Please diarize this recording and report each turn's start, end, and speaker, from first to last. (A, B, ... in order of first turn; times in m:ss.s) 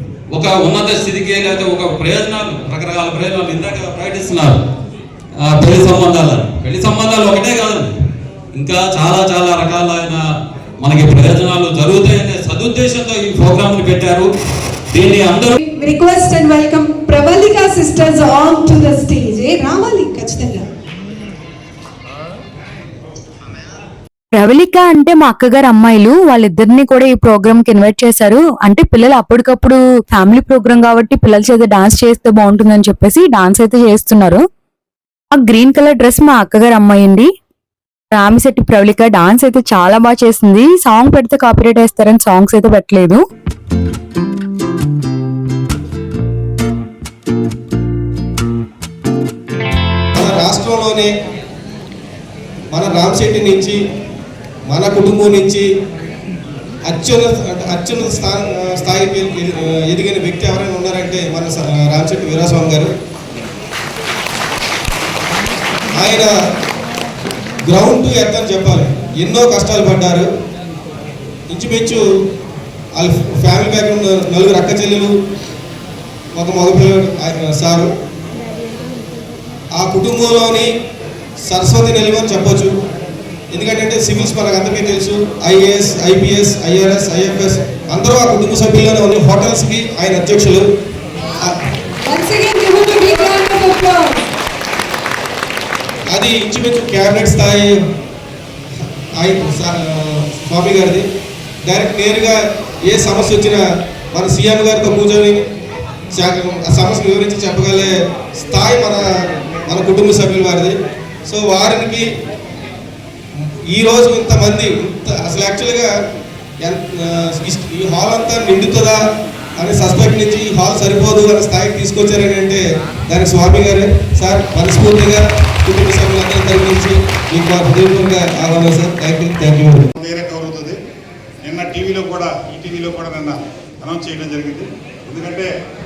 0:00.3-0:04.6 A
0:05.4-0:07.9 A
0:08.6-0:10.2 A
0:10.8-0:14.3 A
0:14.9-0:15.6 A
0:15.6-0:20.6 B
0:24.3-0:34.4 C
0:35.3-0:37.3 C
0:38.1-0:43.2 C
0:50.1-0:51.1 D
0:52.7-0:53.8 D
0:54.7-0:55.6 D
0:56.9-1:02.9 D
1:05.9-1:06.3 D
1:07.6-1:10.3 D
1:11.5-1:12.0 D
1:13.0-1:15.1 D
1:16.4-1:17.9 D
1:19.8-1:20.7 D
1:21.4-1:22.7 D
1:23.5-1:30.6 D
1:32.0-1:34.0 B
1:36.1-1:37.8 D
1:39.2-1:41.0 D
1:41.6-1:43.6 D
1:44.1-1:45.4 D
1:46.1-1:49.0 D
1:49.7-1:50.8 D
1:51.2-1:52.0 D
1:53.7-1:55.9 D
1:56.6-1:59.0 D
1:59.6-2:09.9 D
2:10.0-2:10.8 E
2:11.4-2:15.5 E